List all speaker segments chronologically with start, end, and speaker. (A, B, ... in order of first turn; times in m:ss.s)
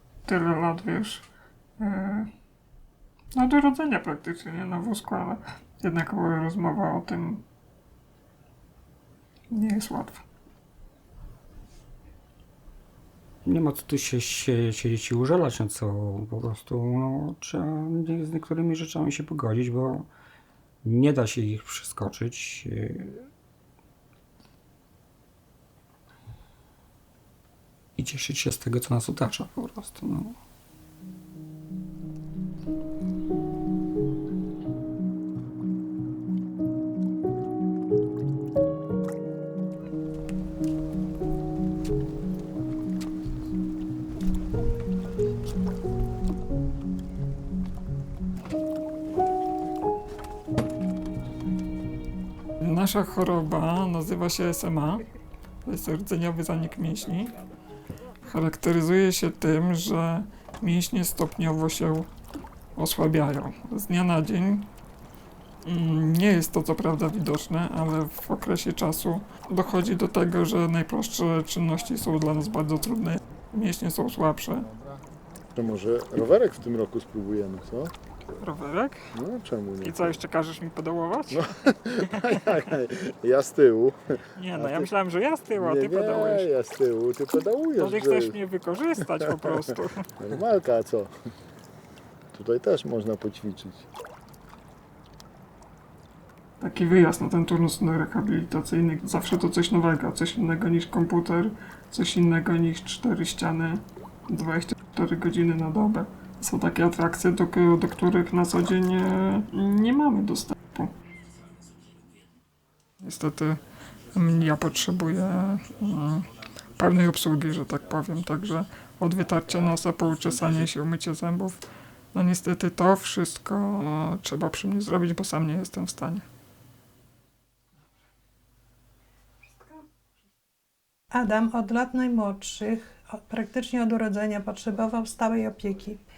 0:00.3-0:01.2 A
0:01.8-0:02.3 A
0:03.3-0:07.4 A
0:09.5-0:10.2 A
0:13.4-0:20.1 B
0:20.8-0:23.3 B
0:28.0-0:30.4 B
0:52.6-0:55.0 A
0:55.6-0:57.3 A
0:58.2-1:02.1 A
1:02.8-1:04.7 A
1:05.6-1:14.7 A
1:15.6-1:17.9 C
1:18.4-1:19.0 A
1:19.2-1:19.9 C
1:19.8-1:21.4 A
1:22.1-1:22.6 A
1:22.3-1:24.0 C
1:24.4-1:26.5 A
1:24.6-1:24.9 C
1:25.6-1:28.2 C
1:27.7-1:30.1 A
1:30.2-1:31.1 C
1:32.3-1:33.9 C
1:36.6-1:50.9 A
1:53.0-1:53.6 A
1:54.1-2:01.6 A
2:02.1-2:06.2 A
2:11.1-2:16.0 D